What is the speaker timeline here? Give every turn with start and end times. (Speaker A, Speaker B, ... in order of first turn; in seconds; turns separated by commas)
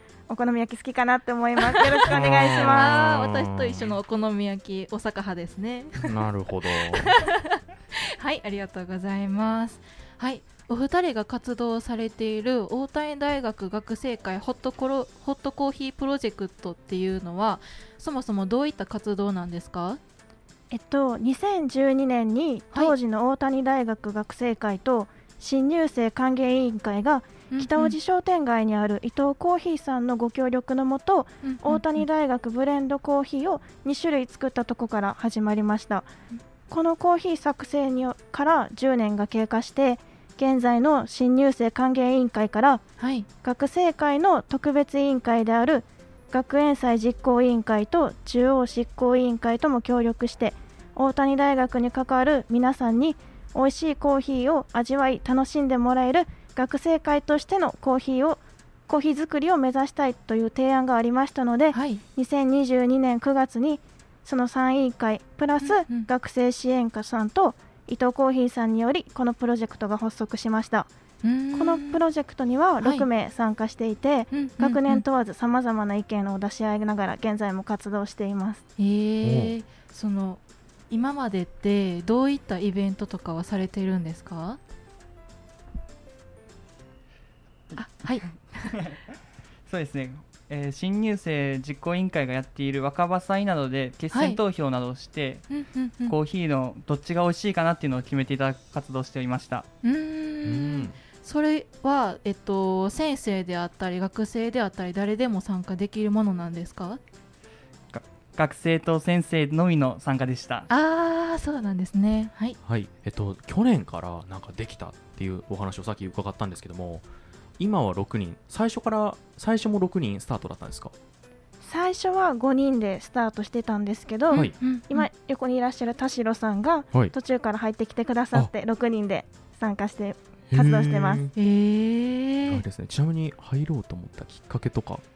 Speaker A: 0.3-2.9, Speaker B: 1.8-6.2, Speaker C: 2.1-4.0, Speaker C: 6.0-7.1, Speaker B: 6.9-20.0, Speaker A: 20.7-36.1, Speaker B: 27.5-28.0, Speaker B: 31.4-32.0, Speaker A: 36.7-42.8, Speaker B: 43.0-43.3, Speaker A: 43.4-70.9, Speaker B: 61.7-62.0, Speaker B: 65.6-66.1, Speaker B: 71.2-72.0, Speaker A: 71.5-78.6, Speaker B: 72.8-73.1, Speaker B: 74.3-75.0, Speaker B: 78.8-84.6, Speaker C: 79.2-79.5, Speaker D: 87.7-89.0, Speaker B: 87.8-88.8, Speaker D: 89.7-99.7, Speaker B: 94.1-94.4, Speaker B: 95.5-96.1, Speaker B: 99.8-107.0, Speaker C: 100.4-101.0, Speaker D: 107.9-110.7, Speaker B: 110.7-112.6, Speaker C: 112.6-117.1, Speaker C: 117.6-120.9, Speaker A: 121.6-131.2, Speaker B: 124.3-125.1, Speaker C: 130.5-131.3, Speaker B: 131.3-132.6, Speaker C: 132.5-135.0